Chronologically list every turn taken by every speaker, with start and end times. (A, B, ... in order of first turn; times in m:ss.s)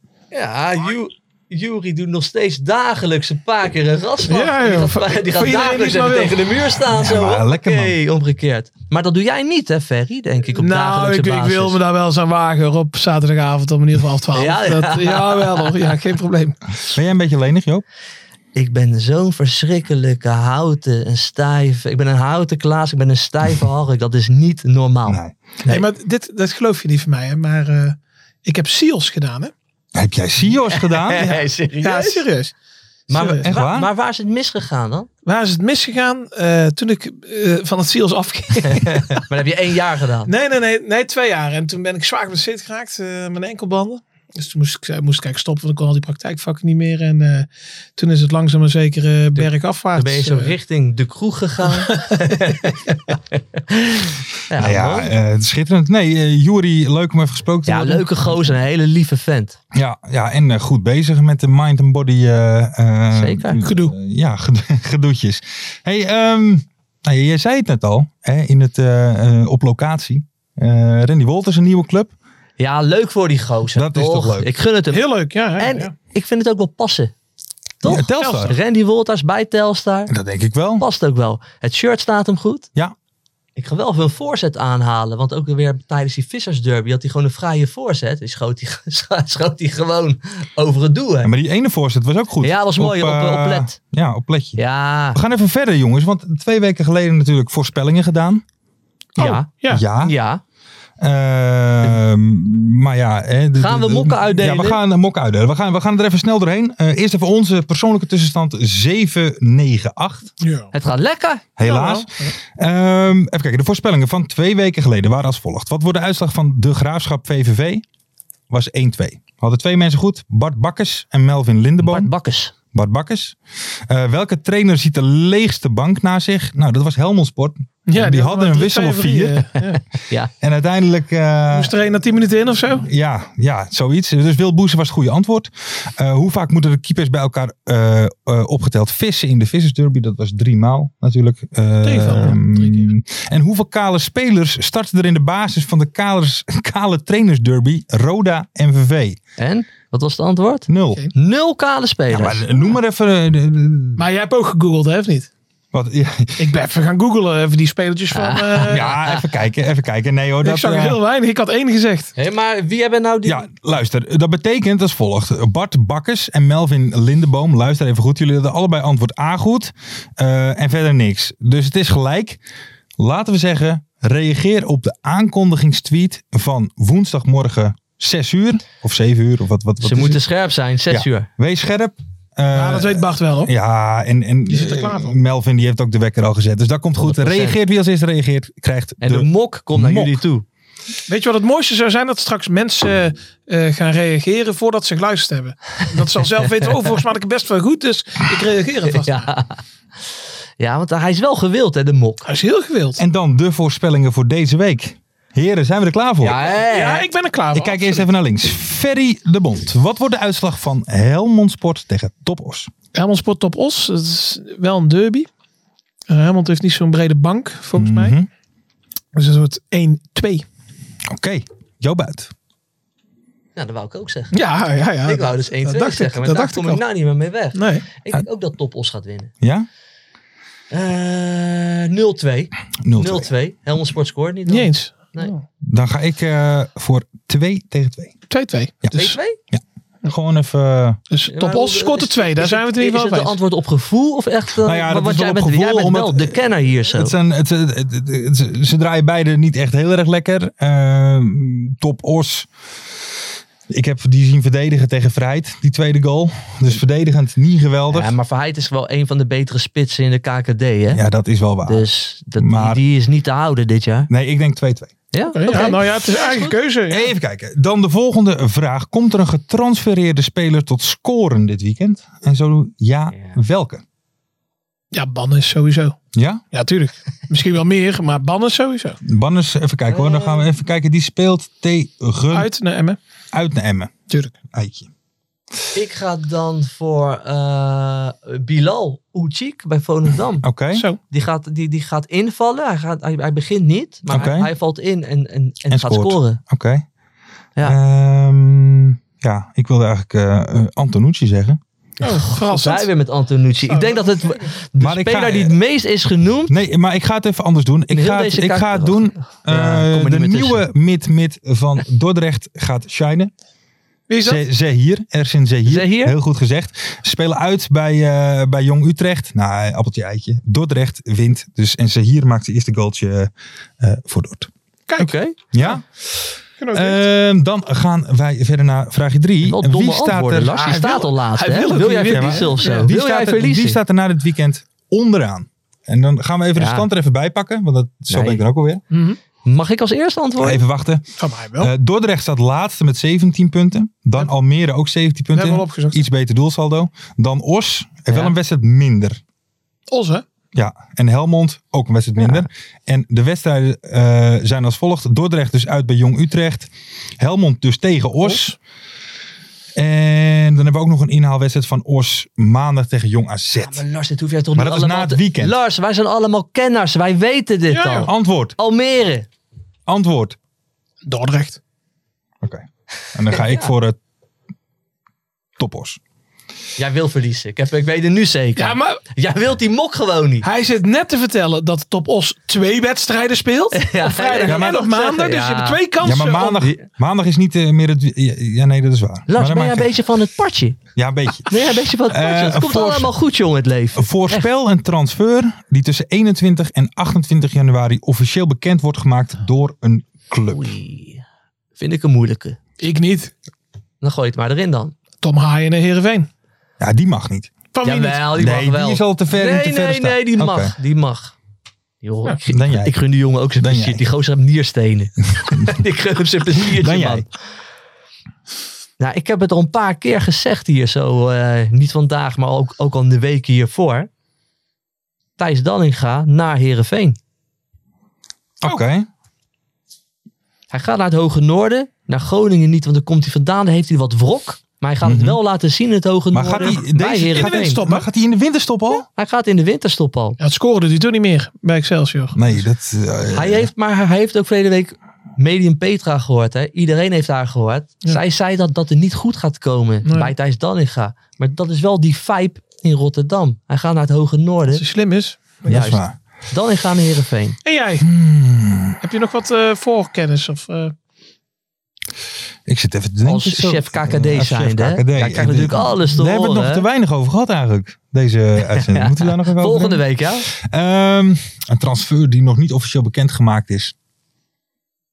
0:00.3-0:11.8 A
0:04.3-0:06.4 B
0:06.9-0:08.0 C
0:10.6-0:16.6 B
0:14.3-0:15.8 A
0:16.9-0:17.8 C
0:18.5-0:25.8 A
0:25.0-0:25.4 C
0:25.7-0:29.5 B
0:29.9-0:31.4 C
0:30.6-0:32.2 A
0:31.8-0:32.5 B
0:33.1-0:35.1 A
0:33.1-0:33.4 B
0:33.4-0:33.9 C
0:35.2-0:39.2 B
0:38.6-0:40.3 A
0:40.3-0:50.5 B
0:49.3-0:55.1 A
0:51.9-0:52.4 B
0:54.6-0:58.1 C
0:57.7-0:59.6 A
0:59.7-1:12.1 C
1:03.1-1:03.6 A
1:03.6-1:03.9 B
1:12.6-1:17.1 A
1:13.7-1:14.5 C
1:14.9-1:15.9 B
1:17.8-1:20.1 A
1:17.8-1:18.6 C
1:18.2-1:18.5 B
1:20.1-1:20.8 C
1:20.8-1:22.7 A
1:23.6-1:31.3 A
1:31.2-1:38.4 C
1:32.4-1:33.7 A
1:34.6-1:35.2 A
1:39.2-1:39.8 B
1:39.2-1:40.4 A
1:39.7-1:40.1 C
1:41.0-1:50.3 C
1:43.6-1:44.8 A
1:50.4-1:50.7 B
1:50.7-1:51.4 A
1:51.6-1:57.8 C
1:51.6-1:52.3 B
1:58.5-2:02.1 C
2:01.8-2:02.5 A
2:02.7-2:09.4 C
2:07.9-2:09.8 B
2:09.7-2:10.3 A
2:10.4-2:11.7 C
2:11.5-2:12.8 B
2:12.8-2:29.2 C
2:21.8-2:22.9 B
2:29.4-2:32.4 A
2:30.7-2:31.0 C
2:32.1-2:34.0 C
2:34.0-2:35.3 B
2:35.7-2:36.4 C
2:36.4-2:38.9 B
2:38.1-2:39.2 A
2:38.6-2:41.0 C
2:40.4-2:42.1 B
2:42.2-2:43.5 A
2:43.2-2:52.4 C
2:53.0-3:00.2 C
2:59.8-3:01.3 A
3:00.9-3:10.2 C
3:02.5-3:03.5 B
3:04.5-3:05.2 B
3:07.0-3:07.6 A
3:09.0-3:10.4 A
3:11.1-3:19.3 B
3:19.0-3:19.6 A
3:20.6-3:22.3 A
3:22.2-3:23.0 B
3:23.0-3:26.4 C
3:26.2-3:27.1 A
3:26.7-3:28.0 B
3:27.5-3:32.7 C
3:32.9-3:35.3 B
3:36.1-3:38.1 B
3:37.8-3:38.3 C
3:39.1-3:40.4 B
3:41.1-3:42.3 C
3:43.6-3:44.4 A
3:44.3-3:46.8 B
3:45.0-3:49.3 A
3:47.5-3:47.8 B
3:49.4-3:49.7 C
3:50.7-3:55.3 A
3:52.8-3:53.3 C
3:54.5-3:55.4 B
3:55.6-3:58.1 C
3:58.3-3:59.2 B
3:58.9-3:59.4 A
3:59.5-4:01.0 C
4:01.1-4:03.4 B
4:01.3-4:07.1 A
4:04.6-4:12.5 C
4:13.7-4:18.1 C
4:17.9-4:21.0 A
4:20.9-4:21.8 C
4:21.6-4:24.1 A
4:22.4-4:22.8 C
4:24.1-4:24.9 C
4:25.1-4:26.5 A
4:25.3-4:27.1 B
4:26.9-4:33.8 C
4:34.9-4:36.0 B
4:36.1-4:36.4 C
4:36.5-4:39.0 B
4:39.0-4:42.5 C
4:39.9-4:40.5 A
4:42.3-4:43.0 B
4:43.3-4:43.9 C
4:44.1-4:44.3 B
4:44.5-4:44.9 C
4:45.7-4:50.5 A
4:50.4-4:50.9 C
4:51.1-4:56.4 A
4:54.1-4:54.5 C
4:55.7-4:56.8 C
4:57.6-5:01.6 C
5:02.0-5:06.5 A
5:02.0-5:02.9 B
5:03.6-5:04.5 B
5:04.8-5:05.6 C
5:06.5-5:13.3 C
5:07.9-5:10.6 A
5:14.1-5:14.4 B
5:14.2-5:24.5 C
5:15.7-5:16.2 A
5:24.9-5:25.8 B
5:25.0-5:25.4 A
5:25.5-5:30.7 C
5:26.6-5:27.1 B
5:29.4-5:33.8 A
5:30.6-5:32.9 B
5:32.1-5:38.8 C
5:36.6-5:36.9 A
5:38.1-5:38.4 A
5:38.9-5:39.2 B
5:39.4-5:40.6 A
5:40.4-5:41.0 C
5:41.2-5:41.7 B
5:41.6-5:49.2 C
5:45.3-5:46.0 B
5:48.1-5:48.3 A
5:49.9-5:50.2 B
5:50.5-5:58.6 C
5:52.2-5:52.4 A
5:59.7-6:03.8 C
6:03.6-6:09.3 A
6:04.5-6:05.6 C
6:07.7-6:08.1 B
6:08.0-6:08.5 C
6:09.9-6:10.4 C
6:11.0-6:11.6 B
6:12.4-6:14.0 C
6:13.3-6:13.6 A
6:15.6-6:16.0 C
6:16.8-6:20.5 A
6:18.6-6:19.0 B
6:20.4-6:26.6 B
6:23.7-6:25.8 A
6:24.4-6:24.8 C
6:26.0-6:29.9 C
6:26.6-6:26.8 A
6:29.3-6:30.8 A
6:31.0-6:33.1 C
6:31.4-6:34.5 A
6:34.0-6:40.7 C
6:40.5-6:41.2 A
6:41.8-6:42.6 A
6:42.8-6:43.3 B
6:44.0-6:44.9 A
6:45.2-6:46.3 B
6:46.8-6:47.5 C
6:47.7-6:48.3 B
6:47.8-6:51.3 A
6:48.3-6:50.7 C
6:52.0-6:57.3 A
6:52.5-6:53.0 C
6:53.6-6:54.0 C
6:56.7-6:57.3 C
6:59.0-7:04.1 A
7:05.4-7:07.2 A
7:08.6-7:09.1 C
7:10.7-7:17.8 A
7:15.0-7:15.4 C
7:16.3-7:19.1 C
7:17.2-7:18.1 B
7:19.1-7:20.4 A
7:20.4-7:22.6 B
7:22.3-7:23.7 C
7:23.3-7:34.8 A
7:30.0-7:30.3 B
7:34.7-7:35.9 B
7:35.7-7:36.2 C
7:35.7-7:37.6 A
7:37.6-7:38.1 B
7:38.0-7:39.0 C
7:39.0-7:40.9 B
7:42.6-7:53.9 C
7:43.2-7:46.8 A
7:48.7-7:50.5 A